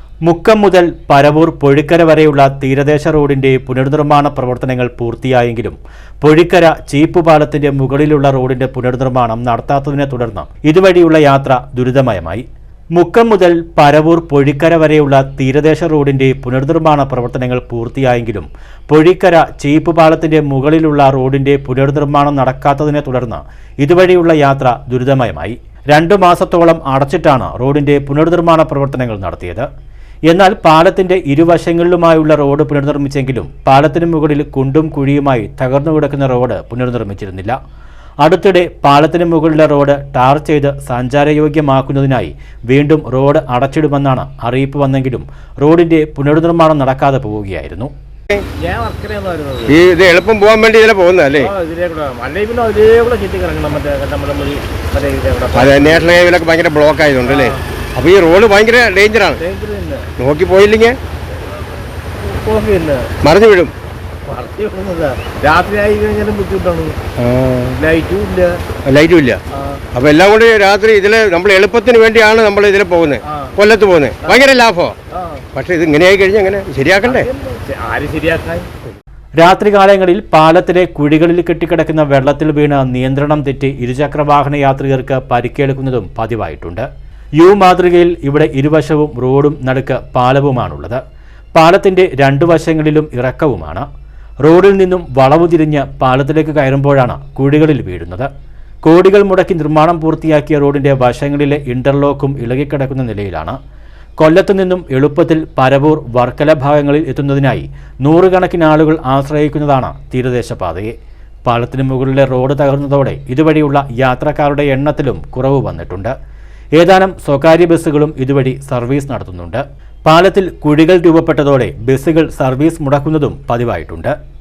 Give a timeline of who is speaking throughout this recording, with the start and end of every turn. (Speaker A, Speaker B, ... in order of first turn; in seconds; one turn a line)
Speaker A: 0.2-12.4
Speaker A: 12.9-29.7
Speaker A: 30.3-37.6
Speaker A: 38.2-47.9
Speaker B: 48.6-49.8
Speaker C: 49.7-51.5
Speaker B: 51.4-56.2
Speaker C: 55.5-59.4
Speaker B: 57.2-57.6
Speaker B: 59.4-60.0
Speaker C: 60.2-61.0
Speaker B: 62.2-63.1
Speaker C: 63.2-63.7
Speaker B: 64.2-67.0
Speaker C: 67.2-67.8
Speaker B: 67.8-68.6
Speaker C: 68.8-69.4
Speaker B: 69.5-69.8
Speaker C: 69.9-74.9
Speaker B: 75.1-75.4
Speaker C: 75.5-77.3
Speaker B: 77.0-79.0
Speaker A: 79.4-86.8
Speaker A: 87.4-91.0
Speaker A: 91.5-93.8
Speaker A: 94.4-98.3
Speaker A: 98.8-103.6
Speaker A: 104.2-110.9
Speaker A: 111.4-116.1
Speaker A: 116.7-124.1